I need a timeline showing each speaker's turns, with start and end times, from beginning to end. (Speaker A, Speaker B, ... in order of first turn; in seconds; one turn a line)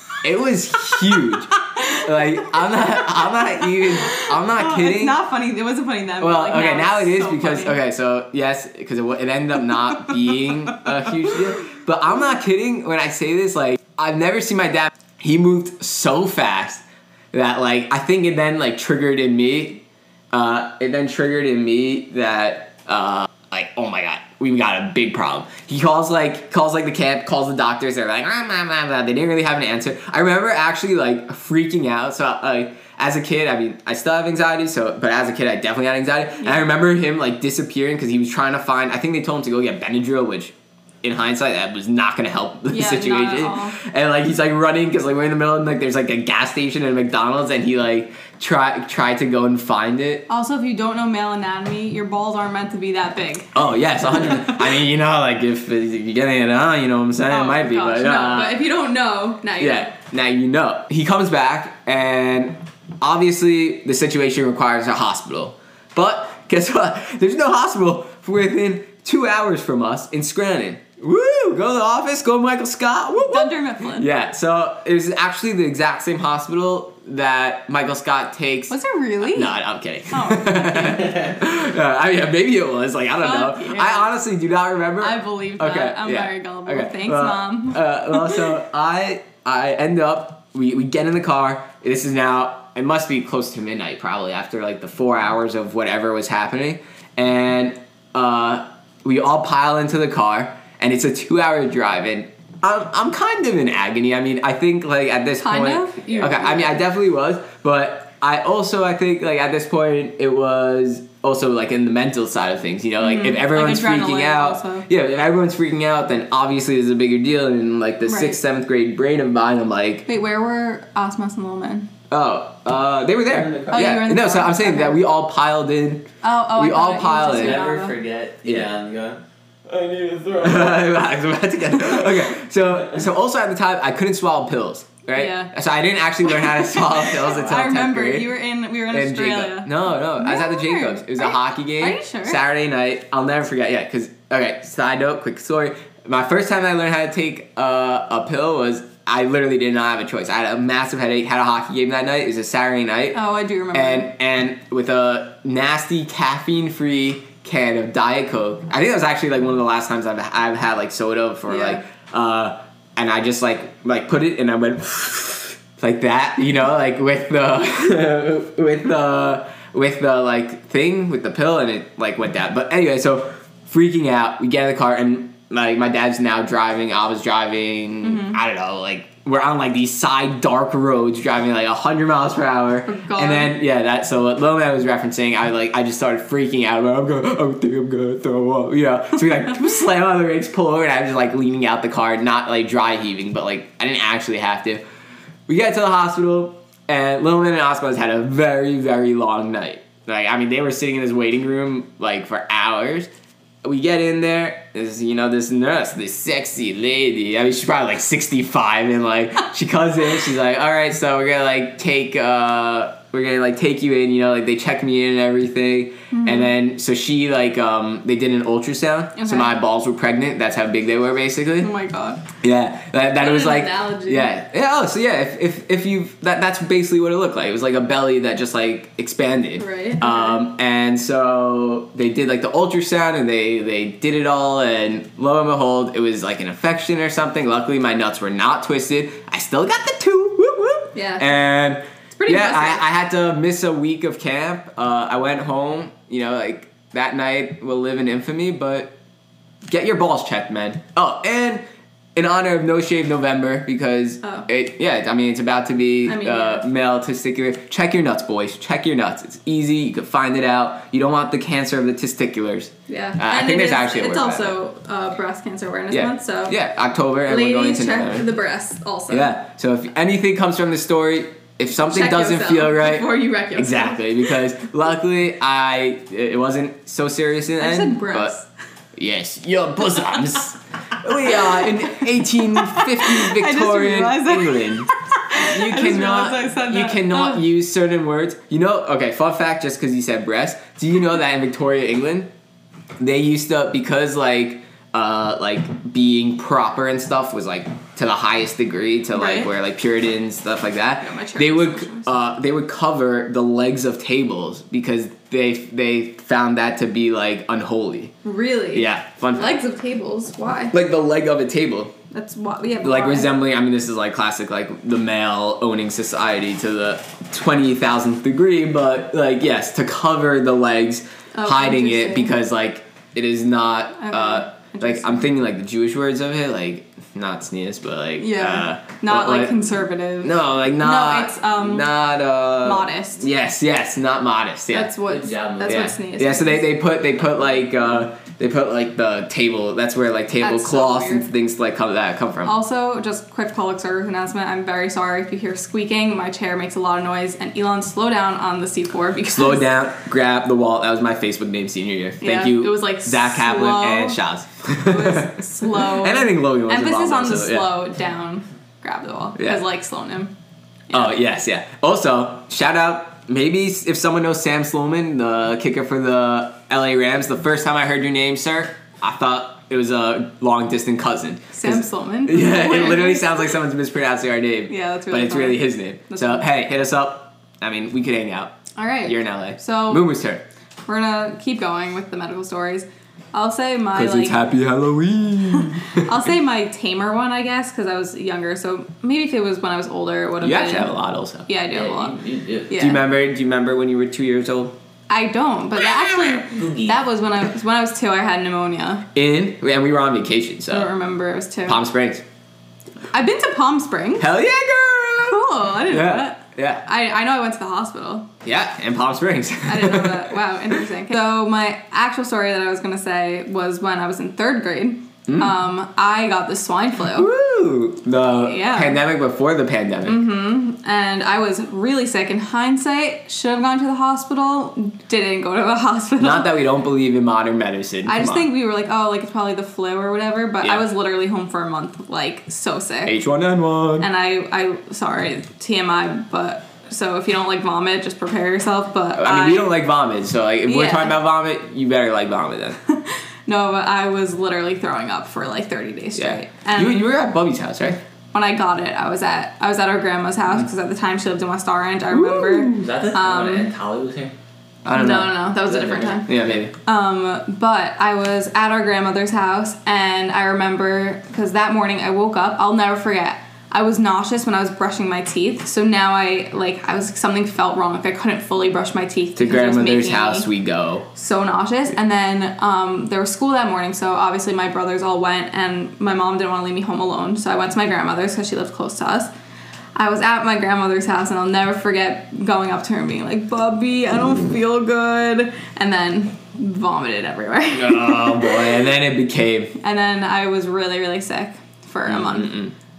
Speaker A: 0.2-5.2
Speaker B: 2.6-7.8
Speaker A: 6.2-50.2
Speaker B: 42.7-43.8
Speaker B: 50.3-53.5
Speaker A: 53.5-58.6
Speaker B: 54.1-54.7
Speaker B: 57.3-59.9
Speaker A: 59.6-120.0
Speaker B: 73.1-74.1
Speaker B: 78.7-79.5
Speaker B: 80.1-81.1
Speaker B: 83.2-84.1
Speaker B: 85.0-88.5
Speaker B: 105.4-106.8
Speaker B: 113.0-114.8
Speaker B: 118.0-118.4
Speaker B: 120.1-121.9
Speaker A: 122.1-127.6
Speaker C: 123.3-123.8
Speaker B: 123.7-125.0
Speaker B: 126.2-127.9
Speaker C: 127.2-130.9
Speaker A: 128.4-128.7
Speaker A: 130.4-138.3
Speaker B: 135.1-135.5
Speaker B: 136.2-142.4
Speaker A: 138.9-153.2
Speaker B: 153.1-154.1
Speaker A: 153.7-194.8
Speaker B: 161.5-161.8
Speaker B: 178.0-178.4
Speaker B: 182.8-183.5
Speaker A: 195.5-203.1
Speaker A: 203.6-221.7
Speaker B: 216.1-216.5
Speaker B: 219.2-219.5
Speaker B: 221.6-222.2
Speaker A: 222.4-248.9
Speaker B: 223.2-224.3
Speaker B: 229.6-230.4
Speaker B: 240.9-241.3
Speaker B: 242.2-242.8
Speaker A: 249.7-251.6
Speaker A: 252.2-264.6
Speaker B: 256.1-256.6
Speaker B: 262.9-266.6
Speaker A: 265.9-268.3
Speaker B: 267.3-269.3
Speaker A: 269.1-278.3
Speaker B: 271.9-274.3
Speaker B: 277.6-278.5
Speaker A: 278.9-292.3
Speaker B: 279.9-280.3
Speaker B: 281.1-287.4
Speaker A: 293.0-308.1
Speaker B: 299.1-299.5
Speaker B: 301.0-302.1
Speaker B: 308.2-310.8
Speaker A: 308.7-309.6
Speaker A: 310.7-311.9
Speaker B: 312.1-313.3
Speaker A: 312.8-334.9
Speaker B: 321.3-322.3
Speaker B: 324.0-325.3
Speaker B: 328.2-331.9
Speaker B: 332.6-333.2
Speaker B: 334.7-336.7
Speaker C: 335.1-335.9
Speaker A: 335.6-342.5
Speaker B: 340.4-341.3
Speaker B: 342.4-349.7
Speaker A: 349.3-357.7
Speaker B: 352.2-354.2
Speaker B: 354.8-360.3
Speaker A: 359.4-359.6
Speaker B: 360.9-361.1
Speaker A: 360.9-380.4
Speaker B: 371.5-373.5
Speaker B: 374.7-376.4
Speaker B: 378.7-380.0
Speaker B: 380.9-384.4
Speaker A: 383.9-386.1
Speaker B: 385.5-390.9
Speaker A: 390.4-391.5
Speaker B: 391.5-392.2
Speaker C: 391.7-392.7
Speaker B: 392.7-393.0
Speaker A: 392.7-394.7
Speaker B: 395.1-399.0
Speaker A: 396.0-396.4
Speaker C: 396.5-397.0
Speaker A: 399.1-400.9
Speaker B: 400.7-401.8
Speaker A: 401.6-402.2
Speaker B: 403.1-404.3
Speaker A: 404.2-406.8
Speaker B: 405.2-408.3
Speaker A: 408.4-410.8
Speaker B: 409.6-417.3
Speaker A: 415.3-415.5
Speaker A: 417.1-420.2
Speaker B: 418.4-419.0
Speaker B: 420.0-426.5
Speaker A: 426.2-428.5
Speaker B: 428.1-433.1
Speaker A: 433.1-434.1
Speaker B: 434.0-439.7
Speaker A: 439.1-442.8
Speaker B: 440.6-441.2
Speaker B: 442.9-447.0
Speaker A: 446.1-448.0
Speaker B: 448.3-453.7
Speaker A: 452.1-452.7
Speaker C: 452.6-454.3
Speaker A: 454.8-455.4
Speaker B: 454.9-456.3
Speaker C: 455.6-456.2
Speaker A: 456.2-456.7
Speaker B: 456.9-470.5
Speaker A: 469.4-471.1
Speaker B: 471.1-479.3
Speaker B: 479.9-488.9
Speaker A: 487.7-489.8
Speaker B: 489.8-492.5
Speaker A: 492.1-492.7